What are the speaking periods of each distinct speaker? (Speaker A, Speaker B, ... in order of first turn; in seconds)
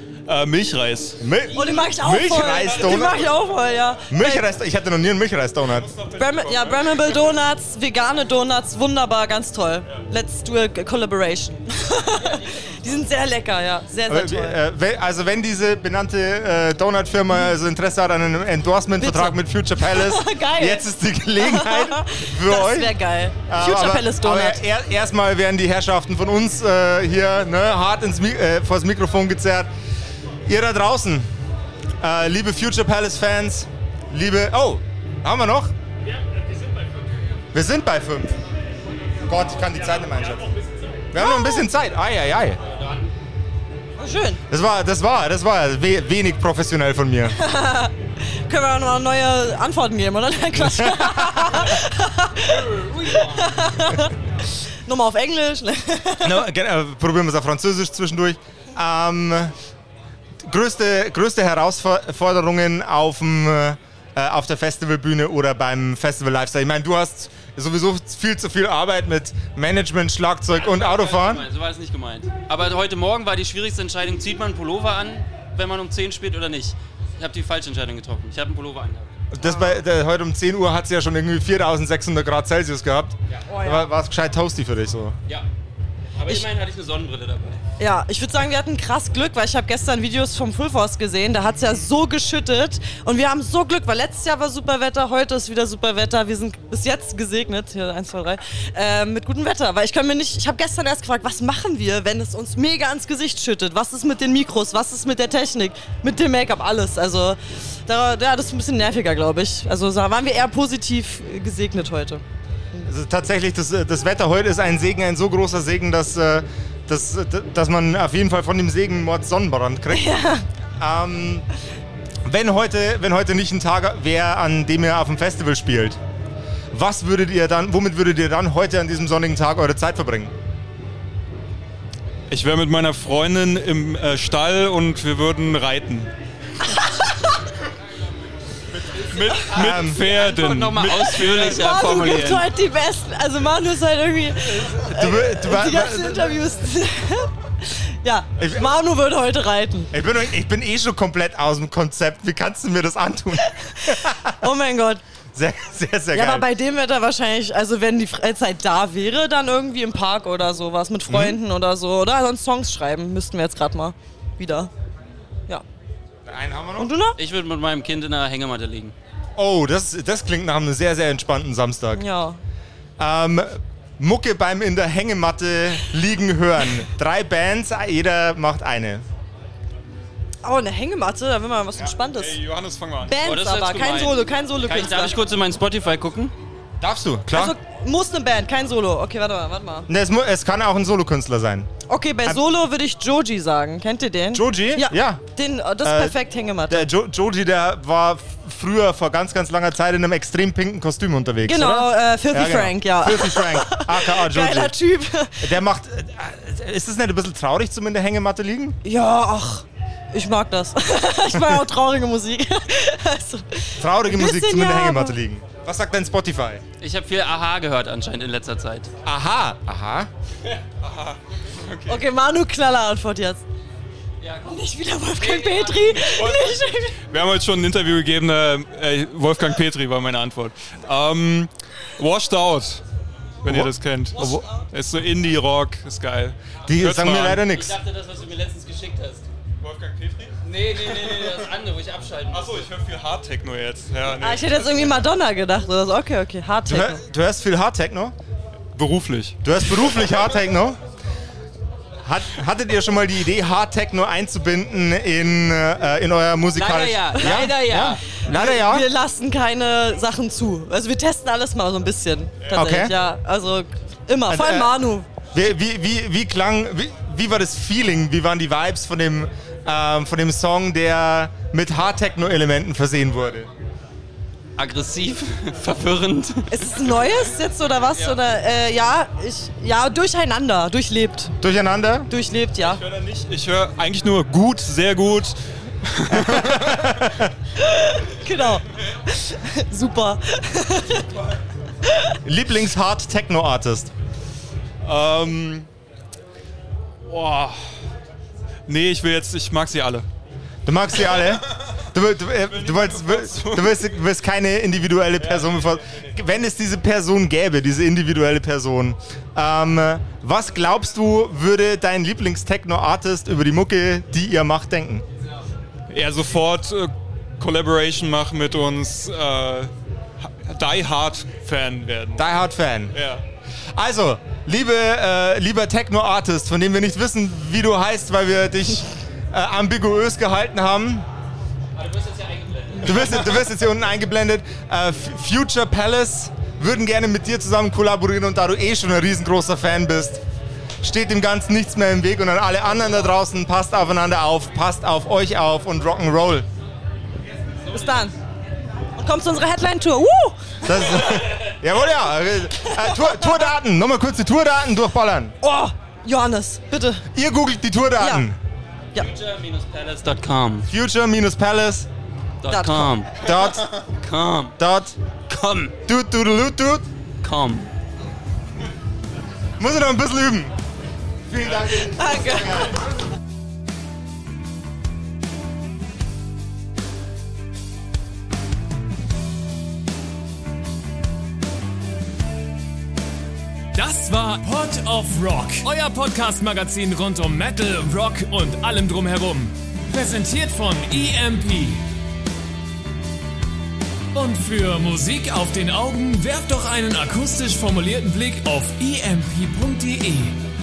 Speaker A: 0.3-1.2, 2.6-3.0, 5.7-7.2, 132.3-136.1, 138.9-142.4, 182.2-183.2, 220.8-222.0, 226.1-232.8, 233.4-237.5, 239.6-240.3, 240.9-241.4, 242.3-245.1, 248.8-249.4, 282.6-286.9, 294.8-295.7, 297.1-297.6, 298.7-300.1, 302.5-303.9, 305.2-306.1, 315.9-319.7, 320.2-322.2, 322.9-323.2
Speaker B: 1.2-3.3, 4.1-5.9, 14.1-22.9, 23.5-29.7, 30.5-31.3, 32.0-35.7, 37.5-38.4, 39.3-40.6, 41.1-42.6, 44.5-47.4, 50.7-51.7, 56.2-59.5, 60.4-71.5, 79.3-85.2, 112.8-120.1, 120.8-121.5, 122.3-126.0, 126.7-130.3, 139.5-140.0, 144.8-146.4, 148.4-148.7, 149.9-154.5, 155.3-156.5, 161.1-161.4, 166.3-166.9, 169.4-172.0, 173.0-179.0, 186.8-187.6, 189.9-191.7, 194.3-195.2, 195.8-196.2, 196.7-204.8, 205.4-208.8, 213.8-216.6, 219.1-220.1, 236.7-237.7, 246.7-248.2, 249.4-250.8, 252.0-258.9, 262.5-262.9, 264.3-264.7, 265.3-273.5, 281.4-282.1, 286.3-287.3, 292.2-293.9, 300.7-315.1, 322.2-323.0, 323.8-331.1, 332.8-340.2, 340.8-346.5, 350.6-355.3, 357.1-358.4, 360.7-361.9, 363.2-363.8, 364.6-365.0, 365.9-366.9, 369.6-370.5, 371.3-372.8
Speaker C: 1.5-4.5, 6.2-14.6, 19.0-24.6, 41.2-41.7, 44.0-44.4, 47.4-56.4, 79.4-79.8, 83.5-83.9, 87.8-112.2, 119.9-120.5, 141.5-149.9, 153.5-155.0, 156.1-164.7, 166.8-167.2, 171.9-172.4, 180.4-182.4, 183.1-185.2, 187.3-189.9, 191.9-196.9, 201.4-205.6, 208.8-215.2, 221.9-223.4, 224.5-227.0, 244.2-247.0, 258.3-265.1, 276.5-281.4, 282.1-282.8, 287.6-291.1, 347.7-348.1, 349.0-350.4, 355.4-357.1, 358.0-358.3, 362.5-362.9, 371.9-372.8
Speaker D: 12.2-12.6, 42.6-43.1, 70.5-79.1, 86.2-87.6, 139.4-142.4, 167.2-168.9, 183.2-186.3, 216.8-218.9, 224.2-224.5, 225.1-226.4, 237.5-239.3, 240.4-242.6, 256.5-258.0, 274.6-276.6, 331.8-333.1, 358.9-360.7, 362.4-363.2, 363.9-364.6, 365.3-365.8, 367.2-367.7
Speaker E: 383.8-391.9, 394.1-400.4